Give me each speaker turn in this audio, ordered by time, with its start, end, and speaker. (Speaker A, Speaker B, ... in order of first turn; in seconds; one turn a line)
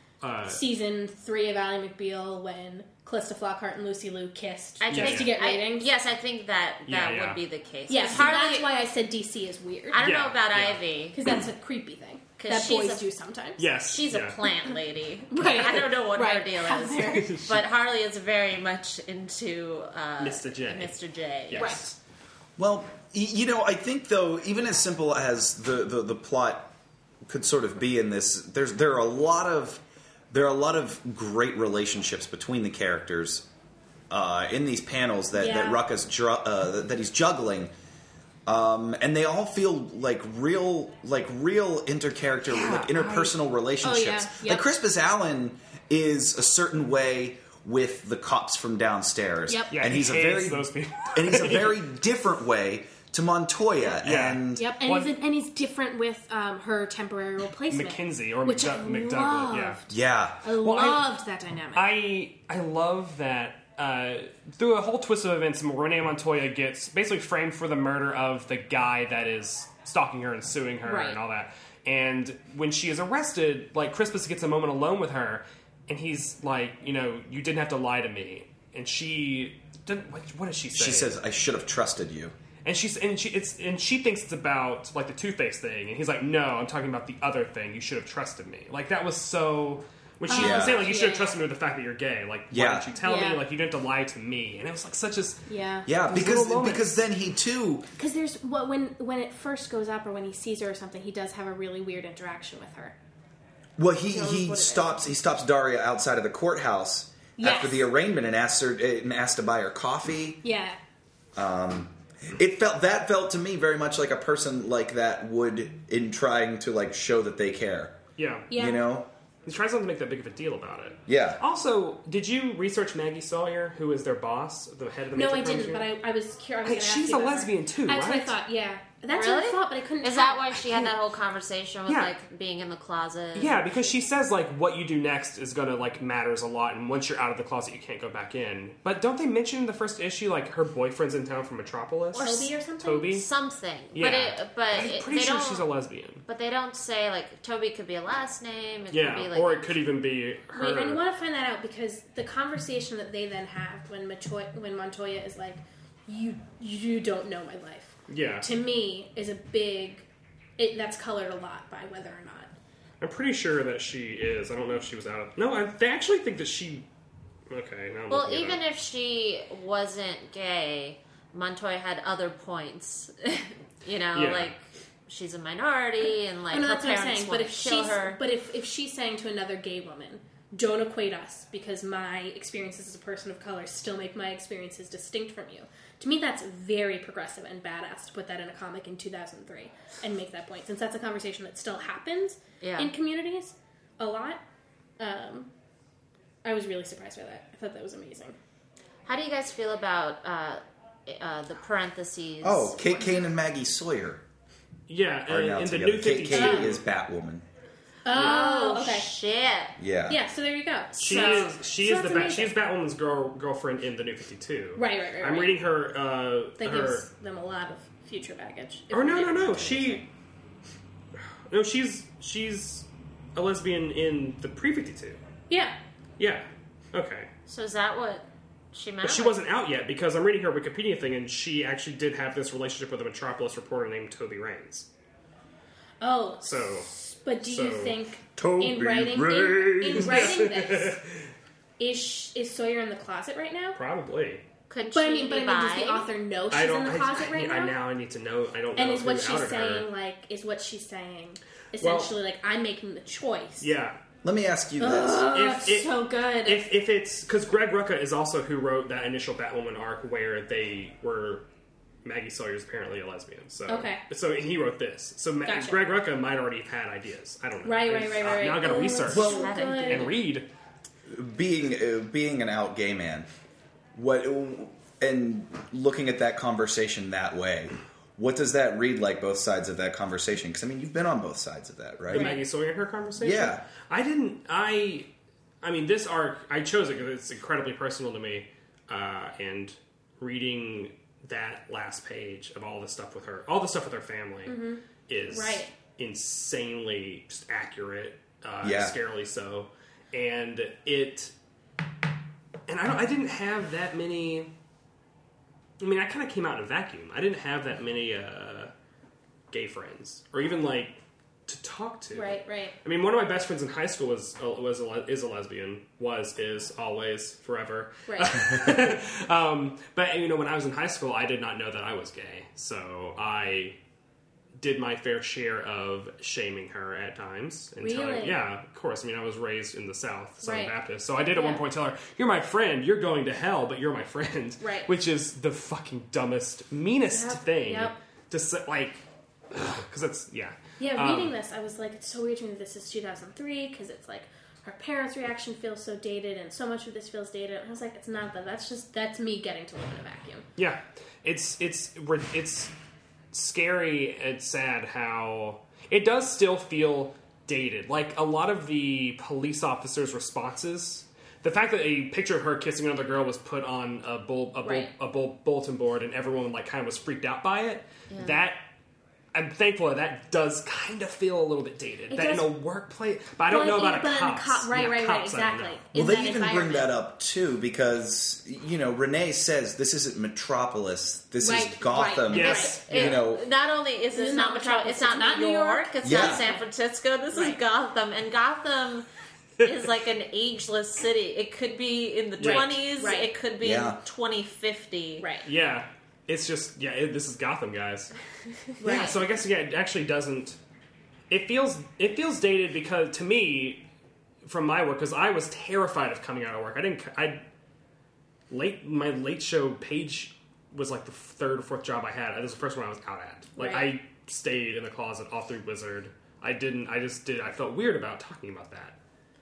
Speaker A: 0.2-0.6
Speaker B: 0.4-5.9
Speaker C: 4.8-8.8
Speaker A: 4.9-5.3
Speaker A: 6.9-7.4
Speaker B: 7.9-10.0
Speaker C: 9.9-11.2
Speaker A: 9.9-10.8
Speaker B: 11.1-13.7
Speaker C: 12.4-13.1
Speaker A: 13.6-14.4
Speaker C: 13.7-21.8
Speaker B: 15.3-17.4
Speaker A: 17.0-17.6
Speaker A: 20.2-20.9
Speaker A: 21.5-21.9
Speaker B: 21.5-21.8
Speaker D: 22.6-26.7
Speaker D: 27.3-33.5
Speaker D: 34.1-37.7
Speaker B: 35.3-35.8
Speaker D: 38.5-54.8
Speaker A: 42.5-43.3
Speaker B: 43.8-44.6
Speaker B: 49.5-49.7
Speaker A: 49.7-51.8
Speaker A: 54.0-55.2
Speaker B: 54.5-59.9
Speaker A: 57.7-59.8
Speaker D: 59.9-60.4
Speaker B: 60.4-61.9
Speaker A: 60.5-61.2
Speaker A: 61.7-81.1
Speaker B: 70.8-71.2
Speaker D: 80.7-82.3
Speaker A: 82.6-95.5
Speaker B: 90.3-91.4
Speaker D: 90.3-90.9
Speaker D: 92.5-92.9
Speaker B: 93.0-93.4
Speaker B: 95.5-95.9
Speaker D: 95.8-97.8
Speaker A: 96.0-96.9
Speaker B: 98.0-102.9
Speaker D: 103.8-110.4
Speaker B: 104.1-105.0
Speaker B: 107.4-107.9
Speaker B: 110.4-110.8
Speaker D: 111.3-118.0
Speaker A: 118.2-118.5
Speaker B: 118.5-118.8
Speaker D: 118.5-119.1
Speaker A: 119.5-125.9
Speaker D: 121.1-121.4
Speaker B: 125.1-130.9
Speaker A: 126.6-128.3
Speaker C: 129.1-133.6
Speaker A: 131.9-132.1
Speaker A: 133.3-143.3
Speaker C: 142.1-142.5
Speaker B: 142.1-143.2
Speaker C: 143.1-145.7
Speaker A: 143.9-146.2
Speaker C: 146.2-149.7
Speaker A: 148.9-151.0
Speaker B: 150.5-160.1
Speaker A: 158.1-158.5
Speaker B: 160.6-162.5
Speaker A: 163.0-166.8
Speaker A: 167.5-168.6
Speaker C: 168.1-178.2
Speaker A: 174.1-174.5
Speaker B: 176.5-194.4
Speaker C: 192.6-192.9
Speaker B: 195.0-195.5
Speaker B: 196.4-198.3
Speaker C: 199.1-203.1
Speaker D: 202.4-204.2
Speaker A: 204.9-206.8
Speaker D: 205.3-207.4
Speaker B: 206.3-206.7
Speaker B: 208.0-209.1
Speaker C: 208.1-209.8
Speaker D: 209.8-210.2
Speaker B: 210.1-212.5
Speaker C: 210.9-211.5
Speaker A: 211.0-217.1
Speaker B: 214.8-215.6
Speaker B: 216.6-220.1
Speaker A: 218.9-220.1
Speaker A: 221.3-225.2
Speaker B: 225.5-225.8
Speaker A: 226.2-227.3
Speaker C: 227.5-229.4
Speaker A: 229.0-234.9
Speaker B: 236.0-241.0
Speaker A: 236.4-236.9
Speaker A: 237.4-238.0
Speaker D: 238.4-240.3
Speaker A: 239.9-241.2
Speaker B: 241.8-243.8
Speaker A: 243.7-244.4
Speaker C: 244.7-246.1
Speaker B: 244.9-247.8
Speaker A: 246.5-249.9
Speaker B: 248.7-253.7
Speaker A: 251.8-252.1
Speaker A: 253.6-254.0
Speaker D: 254.2-255.3
Speaker B: 254.8-256.6
Speaker A: 255.3-261.4
Speaker A: 262.0-270.5
Speaker B: 263.7-264.0
Speaker B: 265.4-265.8
Speaker B: 267.6-270.1
Speaker C: 269.1-270.1
Speaker D: 269.1-269.5
Speaker D: 271.1-273.3
Speaker D: 273.9-282.4
Speaker A: 282.1-285.1
Speaker B: 282.1-282.4
Speaker D: 283.2-283.6
Speaker A: 285.6-301.3
Speaker B: 294.4-295.7
Speaker D: 298.6-298.9
Speaker A: 302.7-304.5
Speaker A: 305.8-308.7
Speaker A: 309.5-323.8
Speaker B: 312.1-312.7
Speaker B: 318.1-318.7
Speaker A: 324.6-341.3
Speaker B: 327.8-328.4
Speaker B: 330.4-330.7
Speaker B: 331.3-331.6
Speaker B: 334.6-334.9
Speaker B: 337.1-337.9
Speaker B: 340.8-350.4
Speaker A: 350.6-352.7
Speaker A: 353.3-368.6
Speaker B: 364.6-364.9
Speaker C: 368.1-368.4
Speaker A: 369.3-375.8
Speaker B: 372.1-372.5
Speaker B: 373.5-376.9
Speaker D: 375.9-383.4
Speaker B: 381.4-382.8
Speaker A: 382.3-383.3
Speaker C: 382.3-389.1
Speaker B: 384.1-386.6
Speaker D: 386.0-386.4
Speaker B: 387.3-387.6
Speaker C: 389.6-395.3
Speaker A: 392.4-392.7
Speaker B: 392.4-393.3
Speaker D: 393.6-394.0
Speaker B: 395.2-395.4
Speaker A: 395.4-398.1
Speaker B: 398.8-399.2
Speaker A: 398.8-400.6
Speaker A: 401.3-403.8
Speaker A: 404.4-407.4
Speaker A: 408.5-419.0
Speaker B: 413.6-413.9